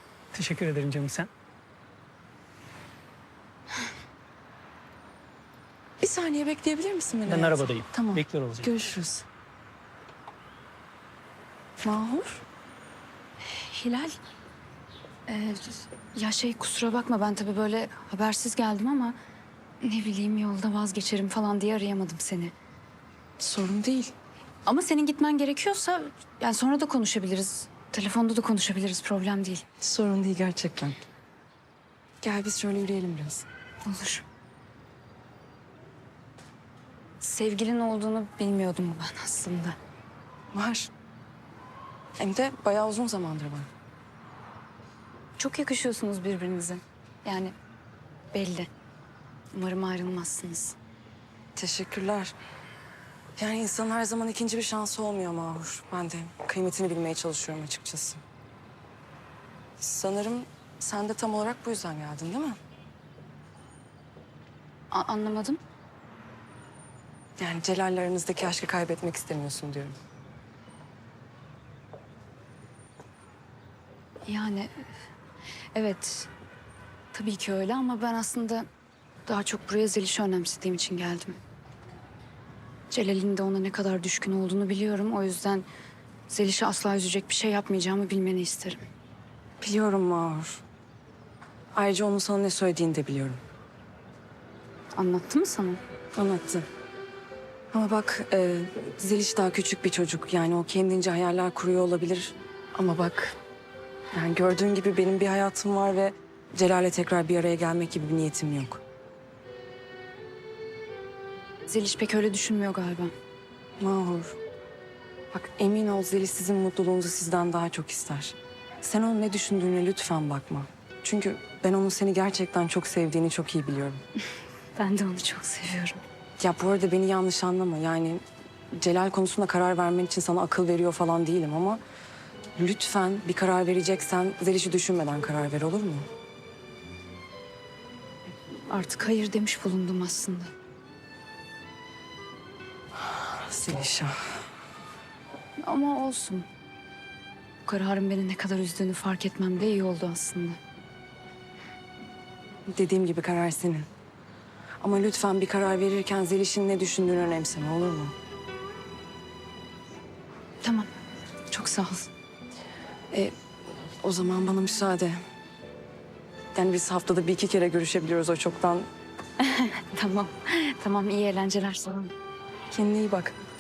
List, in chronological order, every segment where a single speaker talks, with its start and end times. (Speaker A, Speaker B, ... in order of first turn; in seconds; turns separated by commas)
Speaker A: 0.3-1.3, Speaker B: 6.0-9.3, Speaker A: 7.3-8.7, Speaker B: 11.8-12.4, Speaker C: 13.5-14.2, Speaker C: 15.3-19.2, Speaker C: 19.8-22.5, Speaker B: 23.4-24.1, Speaker C: 24.7-29.6, Speaker B: 29.8-31.0, Speaker B: 32.2-33.5, Speaker C: 33.8-34.2, Speaker C: 37.2-39.8, Speaker B: 40.5-40.9, Speaker B: 42.2-43.7, Speaker C: 45.4-47.5, Speaker C: 48.3-48.7, Speaker C: 49.5-50.8, Speaker B: 51.5-52.4, Speaker B: 53.4-58.2, Speaker B: 59.8-62.6, Speaker C: 64.9-65.6, Speaker B: 67.4-70.0, Speaker C: 74.3-74.9, Speaker C: 75.7-76.3, Speaker C: 77.1-78.7, Speaker C: 79.3-81.4, Speaker C: 82.9-85.7, Speaker C: 86.3-88.8, Speaker B: 89.6-90.6, Speaker B: 91.7-93.4, Speaker C: 95.0-95.8, Speaker B: 96.2-96.7, Speaker B: 97.7-103.4, Speaker B: 104.1-108.8, Speaker C: 111.7-113.1, Speaker B: 113.8-114.4, Speaker B: 115.3-124.0, Speaker C: 124.8-126.0, Speaker B: 126.4-131.8, Speaker B: 132.6-136.1, Speaker C: 138.7-140.5, Speaker B: 143.0-144.4, Speaker C: 145.6-146.5, Speaker C: 147.7-150.6, Speaker B: 152.7-153.9, Speaker B: 154.8-158.1, Speaker C: 160.6-160.9, Speaker B: 161.5-162.1, Speaker B: 163.1-165.2, Speaker B: 166.5-168.9, Speaker C: 169.4-172.1, Speaker B: 172.7-173.4